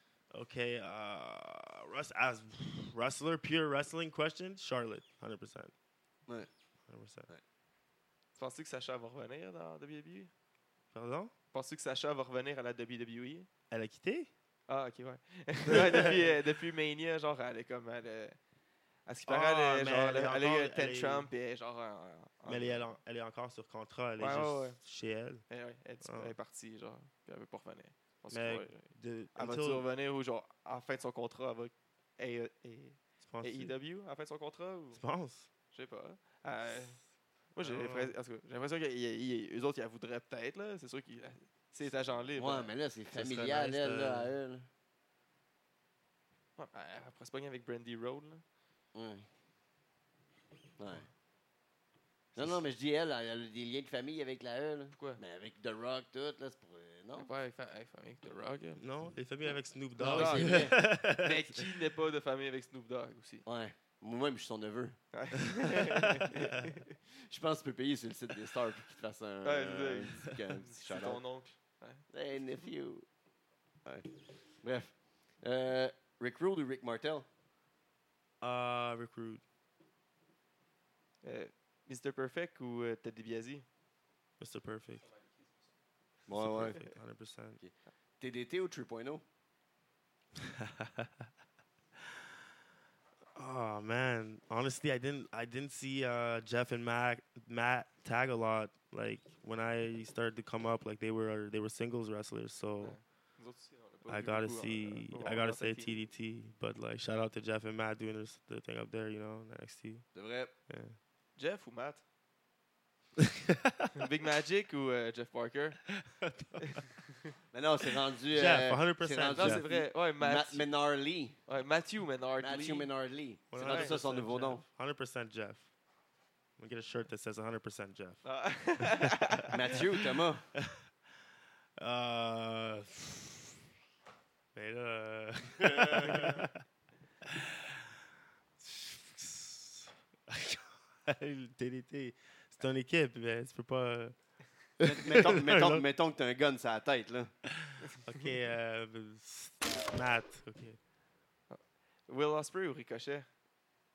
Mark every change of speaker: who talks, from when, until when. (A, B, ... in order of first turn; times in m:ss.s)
0:00.3-0:05.7 A
0:06.9-0:07.3 A
0:08.4-0:10.3 B
0:10.9-0:11.3 A
0:11.5-0:13.5 B
0:13.7-0:14.3 A
0:14.7-0:18.4 B
0:15.7-0:16.2 A
0:19.1-0:22.9 B
0:19.3-0:21.3 A
0:22.5-0:25.4 A
0:24.2-0:24.8 B
0:25.5-0:35.0 B
0:26.0-0:26.4 A
0:28.3-0:29.8 A
0:33.3-0:33.8 A
0:34.9-0:35.5 A
0:35.7-0:37.0 B
0:37.5-0:42.7 B
0:37.6-0:38.2 A
0:42.4-0:44.7 C
0:43.1-0:44.3 A
0:46.6-0:48.4 B
0:48.9-0:49.3 C
0:50.8-0:51.1 C
0:52.4-0:57.3 C
0:54.9-0:55.2 B
0:57.2-0:58.9 B
0:58.8-1:01.7 A
1:00.0-1:03.4 B
1:00.0-1:00.8 C
1:03.4-1:05.1 C
1:05.1-1:06.8 B
1:07.3-1:11.2 C
1:09.4-1:12.1 B
1:12.1-1:13.1 C
1:13.8-1:17.3 C
1:18.4-1:19.4 A
1:21.2-1:23.6 B
1:24.4-1:25.0 A
1:25.0-1:25.7 B
1:26.3-1:26.8 C
1:26.3-1:27.6 A
1:27.6-1:29.2 C
1:30.6-1:31.1 A
1:33.4-1:43.0 A
1:42.8-1:46.0 B
1:44.1-1:50.1 A
1:50.1-1:50.5 C
1:50.7-1:51.0 A
1:51.4-1:52.0 B
1:53.2-1:54.0 A
1:54.0-1:56.0 B
1:56.1-1:56.8 A
1:56.6-1:57.3 B
1:57.5-2:01.4 C
1:58.3-1:59.7 A
1:59.3-2:00.7 B
2:01.5-2:02.9 B
2:02.4-2:04.6 C
2:03.5-2:05.7 A
2:03.6-2:04.0 B
2:06.6-2:08.2 A
2:08.2-2:09.8 B
2:08.8-2:09.4 A
2:09.5-2:10.5 C
2:10.6-2:10.8 A
2:11.8-2:13.5 A
2:14.5-2:16.6 A
2:17.2-2:17.8 A
2:18.6-2:25.8 A
2:24.8-2:27.3 C
2:27.5-2:30.8 A
2:31.5-2:33.3 B